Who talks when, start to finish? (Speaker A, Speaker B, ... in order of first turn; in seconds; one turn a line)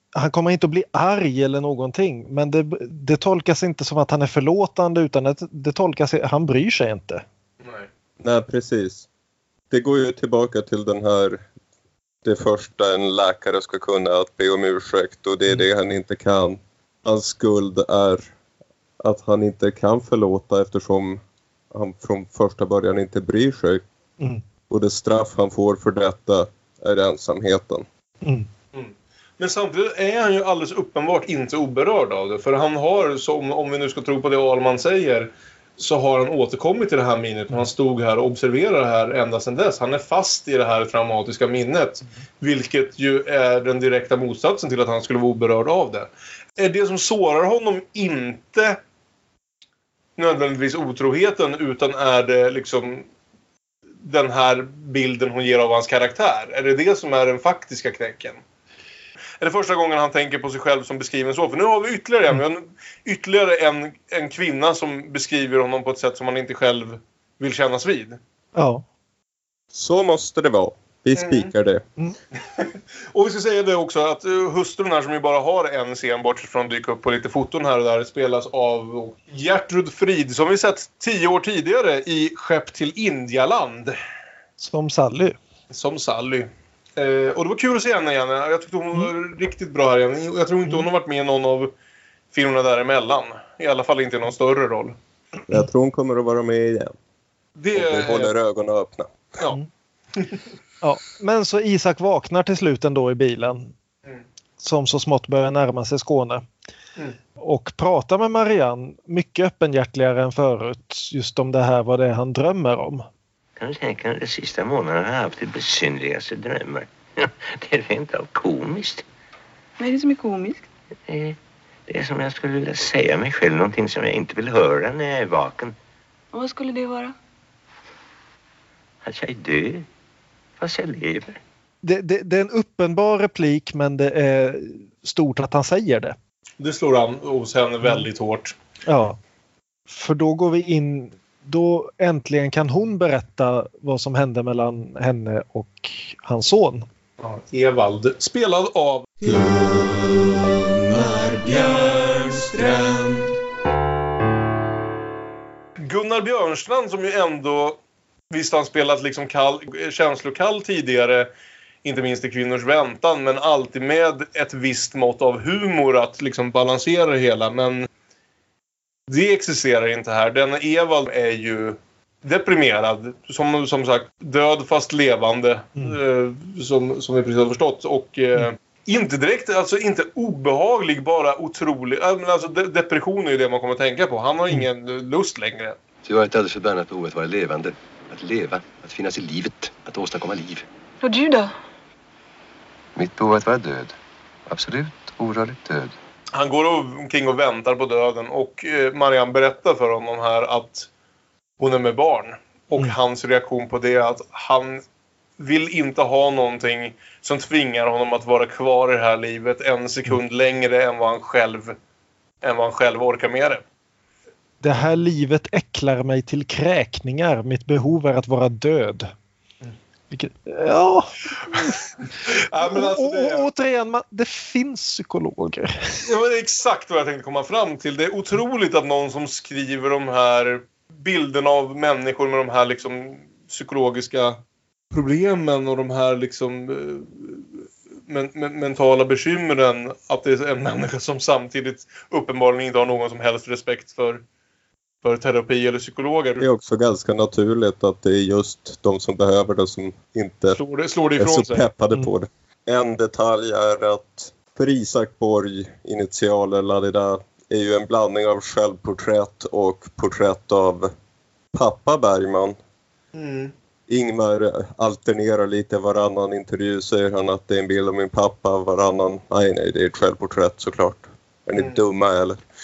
Speaker A: 0.1-7.2
Speaker B: 8.2-9.1
Speaker B: 9.7-11.4
Speaker B: 12.2-18.3
Speaker B: 19.0-23.8
Speaker B: 24.7-27.8
Speaker C: 28.7-48.8
Speaker C: 50.2-53.1
Speaker C: 54.0-58.4
Speaker C: 59.4-68.2
Speaker A: 68.5-68.8
Speaker B: 69.7-71.8
Speaker C: 71.2-71.5
Speaker C: 72.6-84.0
Speaker A: 84.6-85.4
Speaker C: 85.7-91.7
Speaker C: 92.3-95.0
Speaker B: 95.5-96.9
Speaker C: 97.6-98.3
Speaker B: 97.7-99.1
Speaker A: 100.8-103.7
Speaker A: 104.6-106.4
Speaker A: 107.4-113.0
Speaker D: 113.6-119.0
Speaker E: 119.8-120.7
Speaker D: 121.1-125.7
Speaker E: 126.3-127.1
Speaker D: 129.0-129.8
Speaker D: 130.6-131.4
Speaker A: 131.8-136.2
Speaker C: 136.6-138.5
Speaker A: 138.8-139.2
Speaker A: 139.9-146.8
Speaker C: 147.2-149.1
Speaker B: 149.3-153.2
Speaker C: 155.8-157.8
Speaker C: 158.3-161.3
Speaker C: 161.8-167.9
Speaker C: 169.1-185.8
Speaker F: 186.0-190.6
Speaker E: 191.0-191.5
Speaker F: 192.9-193.9
Speaker F: 194.5-195.9
Speaker C: 196.3-200.9
Speaker C: 201.6-204.8
Speaker C: 205.4-211.7
Speaker C: 212.4-213.6
Speaker A: 214.6-219.1
Speaker A: 220.1-221.8
Speaker C: 222.2-223.5
Speaker A: 222.7-226.0
Speaker C: 226.0-234.4
Speaker C: 234.9-244.2
Speaker C: 245.0-246.4
Speaker B: 246.4-250.6
Speaker C: 250.5-251.7
Speaker B: 251.2-260.9
Speaker B: 261.5-262.6
Speaker C: 263.1-263.5
Speaker B: 263.9-272.4